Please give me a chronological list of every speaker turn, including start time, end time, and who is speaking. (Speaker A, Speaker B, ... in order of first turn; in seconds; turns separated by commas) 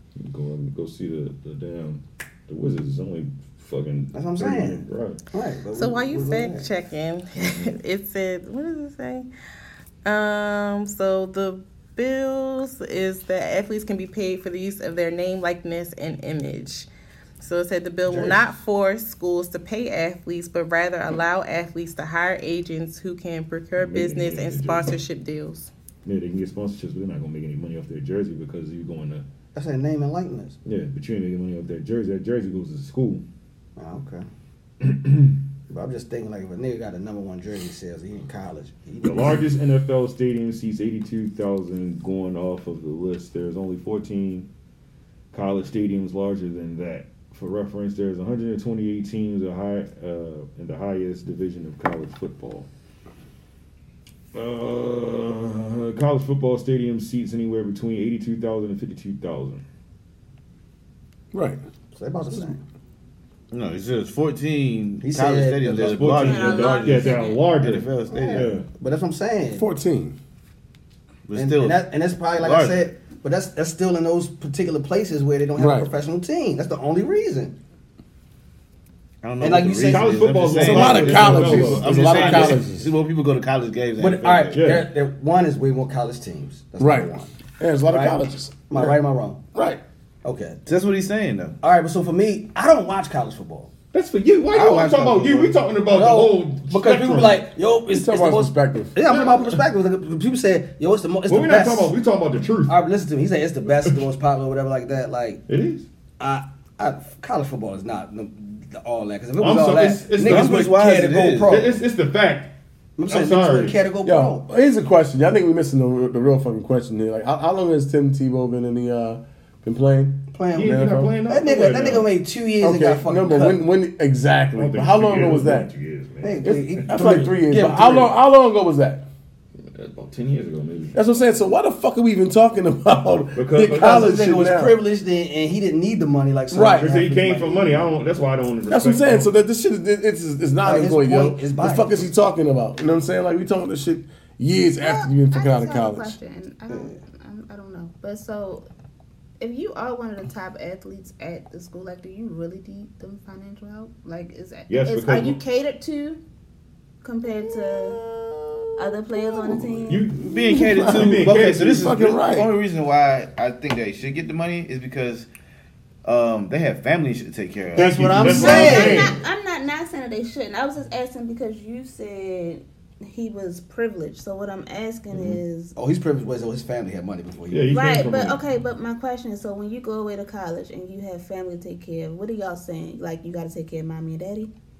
Speaker A: 0.2-5.2, Speaker B: 4.1-6.7, Speaker C: 5.7-9.3, Speaker C: 10.0-16.9, Speaker C: 17.4-25.7, Speaker B: 18.1-18.4, Speaker A: 23.8-25.0, Speaker A: 26.0-29.2, Speaker B: 29.5-30.6, Speaker A: 30.6-33.2, Speaker B: 33.8-34.2, Speaker A: 34.8-35.4, Speaker B: 35.7-39.5, Speaker A: 39.0-44.5, Speaker A: 45.3-52.7, Speaker A: 54.3-59.6, Speaker D: 61.3-61.6, Speaker B: 61.9-62.6, Speaker E: 63.5-68.5, Speaker B: 65.0-66.2, Speaker A: 65.8-68.7, Speaker F: 66.1-67.4, Speaker B: 68.1-69.6, Speaker D: 69.5-70.2, Speaker E: 71.3-71.8, Speaker B: 71.3-77.5, Speaker E: 72.3-72.8, Speaker D: 75.6-75.9, Speaker E: 79.2-84.8, Speaker B: 79.4-80.3, Speaker A: 79.9-82.3, Speaker D: 80.5-82.9, Speaker B: 81.9-82.6, Speaker B: 84.0-87.3, Speaker A: 84.5-84.9, Speaker D: 86.8-89.0, Speaker B: 87.8-89.4, Speaker D: 89.5-89.8, Speaker B: 90.2-90.6, Speaker E: 90.7-91.5, Speaker B: 91.6-93.7, Speaker A: 93.9-97.5, Speaker B: 94.5-101.9, Speaker D: 97.9-98.9, Speaker A: 99.0-99.6, Speaker A: 101.3-102.8, Speaker B: 102.7-105.4, Speaker A: 105.5-105.9, Speaker B: 106.2-111.8, Speaker A: 109.4-110.8, Speaker E: 110.2-111.7, Speaker A: 111.4-112.5, Speaker B: 113.0-114.4, Speaker A: 113.1-113.8, Speaker D: 114.0-121.2, Speaker B: 120.3-123.6, Speaker A: 120.5-122.1, Speaker D: 122.6-125.7, Speaker A: 124.5-127.0, Speaker B: 126.2-128.1, Speaker D: 126.4-129.1, Speaker A: 129.7-130.9, Speaker D: 130.9-134.8, Speaker A: 133.3-134.2, Speaker B: 133.6-137.9, Speaker D: 136.5-137.0, Speaker A: 136.8-139.3, Speaker D: 138.7-146.2, Speaker B: 140.6-142.1, Speaker F: 144.8-148.6, Speaker F: 149.4-156.2, Speaker A: 154.7-155.4, Speaker F: 157.0-158.0, Speaker F: 158.8-160.1, Speaker A: 159.9-161.8, Speaker E: 160.1-165.3, Speaker D: 160.4-162.5, Speaker E: 166.0-168.9, Speaker B: 167.7-169.2, Speaker A: 167.7-169.2, Speaker F: 168.2-175.7, Speaker A: 175.1-175.4, Speaker B: 175.8-177.7, Speaker A: 177.5-178.4, Speaker F: 177.7-184.5